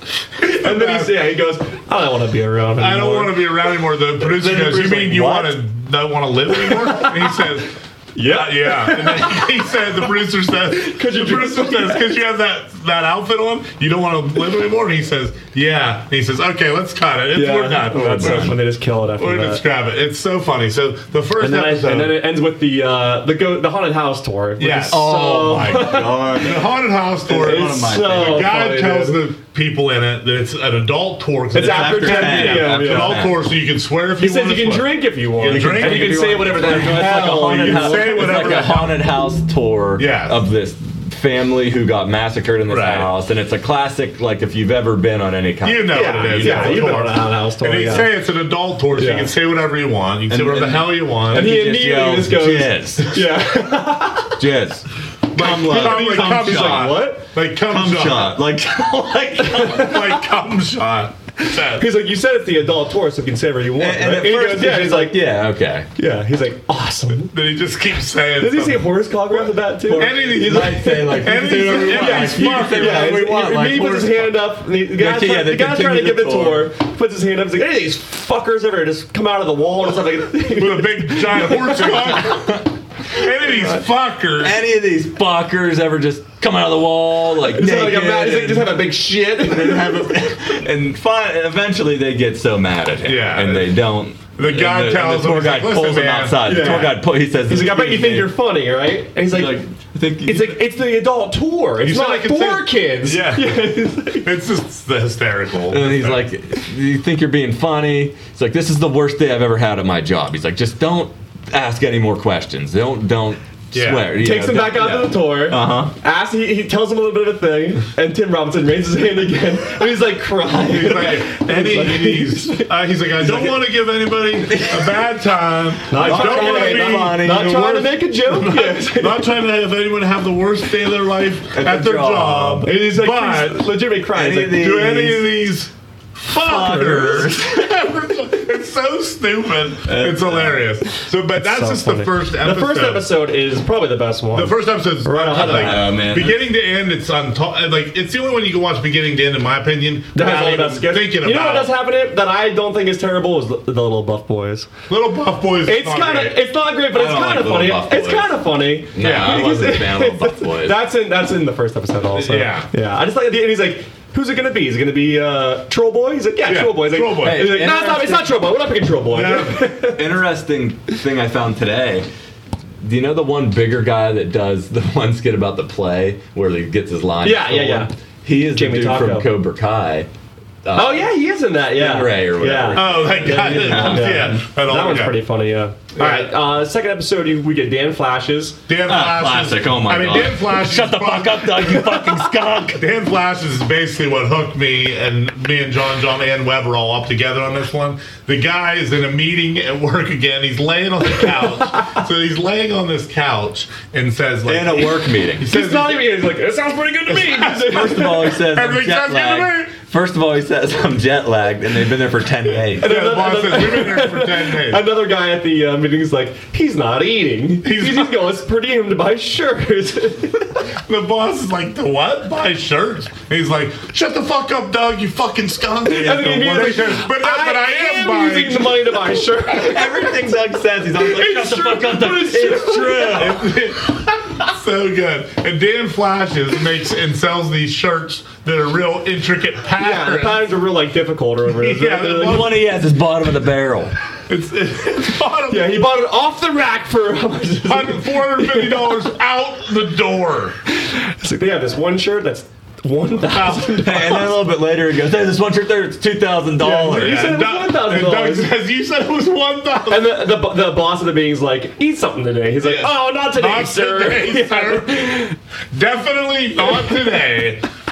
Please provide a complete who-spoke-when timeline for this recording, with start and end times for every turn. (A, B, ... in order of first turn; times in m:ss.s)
0:00.4-0:03.5 A
0:00.4-0:01.4 B
0:02.8-0:18.6 B
0:04.2-0:05.6 C
0:06.5-0:07.4 A
0:08.1-0:09.7 A
0:10.7-0:12.1 A
0:17.4-0:19.6 A
0:17.4-0:18.6 C
0:19.2-0:22.2 B
0:21.4-0:26.2 A
0:24.6-0:39.0 B
0:24.9-0:26.7 C
0:27.3-0:28.4 C
0:27.3-0:29.2 A
0:31.5-0:33.1 A
0:31.5-0:33.4 C
0:34.2-0:38.5 A
0:35.4-0:47.0 C
0:40.0-0:40.4 B
0:42.7-0:43.1 B
0:45.6-0:51.5 B
0:45.9-0:48.1 A
0:48.9-0:49.3 A
0:50.3-0:53.4 C
0:51.3-0:54.4 A
0:54.4-0:57.0 C
0:55.3-0:58.4 B
0:55.5-0:57.2 A
0:57.7-1:00.1 C
0:59.4-1:00.1 A
0:59.6-1:01.8 B
1:01.4-1:05.2 A
1:03.8-1:05.9 C
1:06.0-1:07.3 A
1:07.1-1:09.1 B
1:08.4-1:22.4 A
1:09.8-1:16.7 C
1:09.9-1:13.1 B
1:20.5-1:24.6 B
1:24.4-1:38.3 C
1:27.5-1:30.1 A
1:33.0-1:33.8 B
1:34.4-1:36.8 B
1:36.4-1:39.6 A
1:39.3-1:40.6 C
1:40.2-1:44.3 A
1:41.8-1:46.2 B
1:45.7-1:55.9 C
1:53.7-1:54.1 B
1:54.1-2:03.5 A
2:00.6-2:07.2 B
2:04.5-2:05.0 C
2:05.9-2:09.3 A
2:05.9-2:08.0 C
2:08.2-2:13.8 B
2:11.5-2:12.7 C
2:12.6-2:14.9 A
2:14.1-2:15.3 C
2:14.5-2:23.1 B
2:16.3-2:17.7 C
2:19.9-2:20.6 C
2:21.4-2:25.8 A
2:24.3-2:31.7 B
2:25.3-2:26.4 C
2:30.1-2:34.7 A
2:34.9-2:36.4 B
2:35.6-2:50.0 A
2:36.9-2:38.4 C
2:38.9-2:40.8 C
2:39.0-2:39.4 B
2:42.1-2:42.7 B
2:46.5-2:47.5 B
2:47.2-2:48.4 C
2:49.1-2:49.6 B
2:49.8-2:52.0 C
2:52.8-3:00.1 C
2:57.2-2:57.9 A
2:58.5-2:59.3 A
3:00.6-3:01.1 C
3:00.8-3:08.6 A
3:01.7-3:04.4 C
3:02.7-3:05.2 B
3:05.9-3:06.3 B
3:08.7-3:11.9 B
3:08.8-3:12.8 C
3:12.7-3:26.1 B
3:24.4-3:25.5 C
3:25.4-3:28.4 A
3:27.1-3:29.7 B
3:27.4-3:32.8 C
3:32.8-3:40.7 A
3:32.8-3:34.9 B
3:37.6-3:38.2 B
3:40.9-3:48.8 B
3:45.8-3:50.2 A
3:46.0-3:46.9 C
3:49.4-3:53.5 C
3:51.0-3:53.3 A
3:53.1-4:00.5 B
3:59.8-4:02.5 A
4:01.5-4:02.6 B
4:02.2-4:03.9 C
4:04.3-4:05.9 B
4:05.5-4:08.9 A
4:07.6-4:10.6 B
4:10.8-4:14.3 A
4:13.2-4:14.2 B
4:13.8-4:17.4 C
4:16.6-4:18.5 A
4:16.9-4:20.3 B
4:19.9-4:25.4 A
4:22.6-4:25.2 B
4:25.7-4:27.6 B